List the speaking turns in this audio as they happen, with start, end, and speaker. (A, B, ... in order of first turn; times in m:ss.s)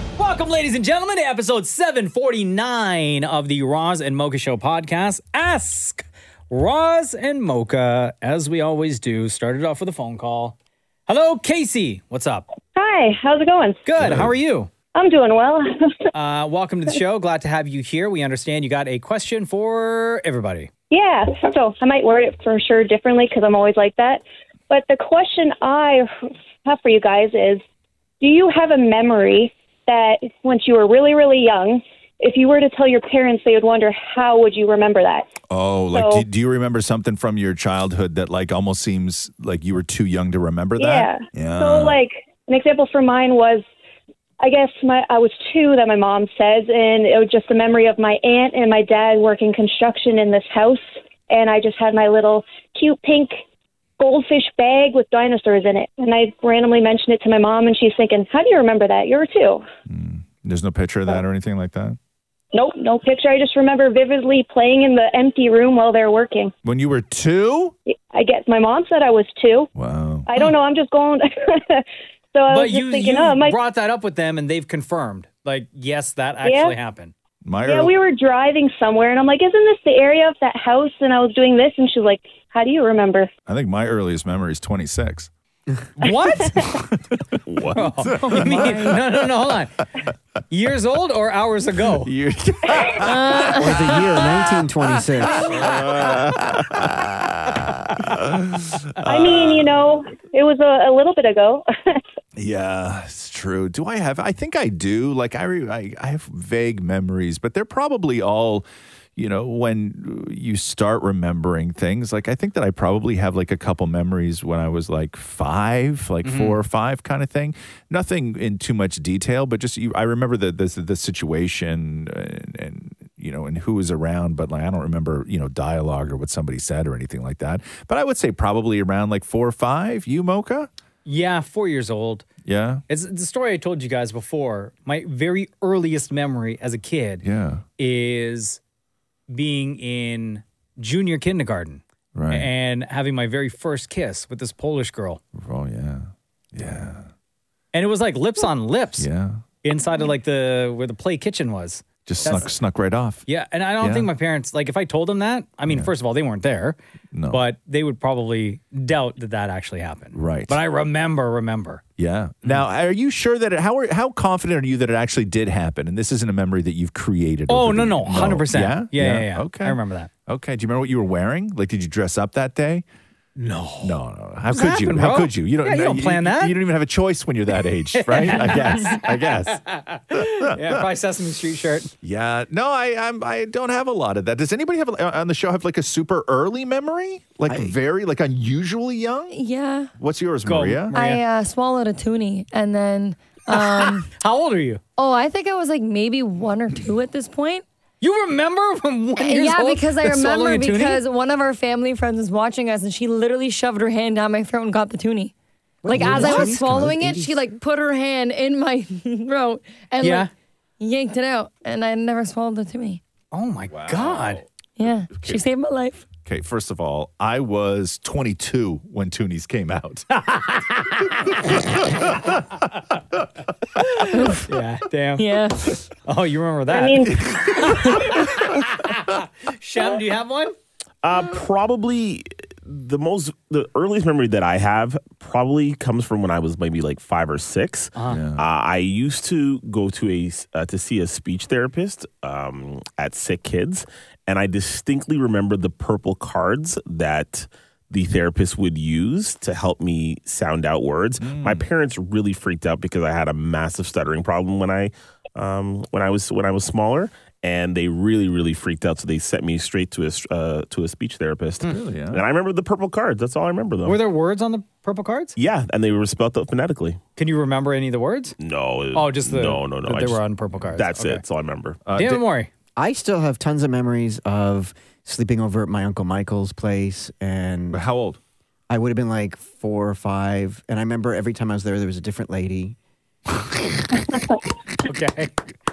0:00.2-0:10.5 A
0:11.1-0:12.4 A
0:12.8-0:13.8 B
0:13.8-0:14.7 A
0:14.0-0:14.3 C
0:14.9-0:16.0 B
0:16.1-0:20.7 A
0:20.9-0:27.6 B
0:28.2-0:35.3 B
0:35.5-0:42.0 C
0:35.9-0:36.2 B
0:40.8-0:43.6 B
0:44.4-0:53.4 B
0:54.0-0:59.6 B
0:59.9-1:02.0 C
1:02.5-1:06.5 B
1:06.6-1:07.7 C
1:07.9-1:09.7 B
1:09.8-1:10.3 C
1:10.2-1:13.6 B
1:12.5-1:17.1 A
1:16.4-1:16.8 B
1:17.4-1:17.9 C
1:17.6-1:23.3 B
1:23.5-1:25.3 C
1:26.0-1:26.7 A
1:27.4-1:27.9 D
1:27.7-1:29.8 A
1:28.0-1:29.2 C
1:28.3-1:28.9 E
1:30.5-1:32.1 A
1:32.0-1:33.7 C
1:33.0-1:34.2 E
1:33.4-1:35.6 F
1:35.4-1:39.5 C
1:35.4-1:36.9 D
1:39.0-1:42.0 B
1:42.4-1:48.6 C
1:49.2-2:10.7 C
1:56.2-1:56.6 A
2:11.0-2:12.3 A
2:12.4-2:12.8 C
2:12.9-2:17.2 A
2:17.2-2:17.6 C
2:17.8-2:18.6 A
2:19.3-2:25.2 A
2:22.1-2:22.5 C
2:25.3-2:27.1 C
2:27.7-2:29.1 A
2:29.0-2:29.4 C
2:29.6-2:32.5 A
2:32.0-2:33.2 C
2:33.2-2:36.8 A
2:33.8-2:34.1 C
2:37.1-2:37.4 C
2:37.3-2:41.8 A
2:40.1-2:40.6 C
2:42.0-2:52.8 C
2:47.5-2:50.1 A
2:53.4-2:54.0 A
2:53.8-3:00.9 C
2:54.5-2:56.6 A
2:57.9-3:01.9 A
3:02.0-3:09.4 C
3:07.5-3:07.8 F
3:09.3-3:09.9 E
3:10.0-3:10.9 C
3:10.4-3:11.2 A
3:10.9-3:14.1 E
3:13.5-3:14.8 A
3:15.0-3:17.6 E
3:18.0-3:21.0 A
3:19.2-3:25.3 E
3:25.8-3:27.4 F
3:25.8-3:30.3 E
3:26.0-3:26.6 C
3:30.0-3:30.3 A
3:30.8-3:33.0 E
3:33.3-3:34.4 A
3:33.7-3:34.4 C
3:34.8-3:36.0 E
3:35.1-3:35.4 C
3:36.2-3:40.0 C
3:40.1-3:41.4 A
3:41.2-3:42.4 C
3:43.8-3:50.5 A
3:45.2-3:45.7 E
3:46.7-3:47.6 B
3:47.2-3:48.3 C
3:51.0-4:24.0 D
3:58.0-3:58.2 A
3:58.1-3:58.4 C
4:11.2-4:11.6 C
4:21.6-4:22.2 C
4:23.8-4:25.4 A
4:25.4-4:27.0 D
4:27.2-4:28.4 A
4:28.4-4:31.8 D
4:28.9-4:31.2 A
4:31.8-4:32.2 C
4:31.9-4:32.5 A
4:32.8-4:37.8 F
4:37.7-4:38.2 C
4:38.7-4:42.8 F
4:44.8-4:45.4 A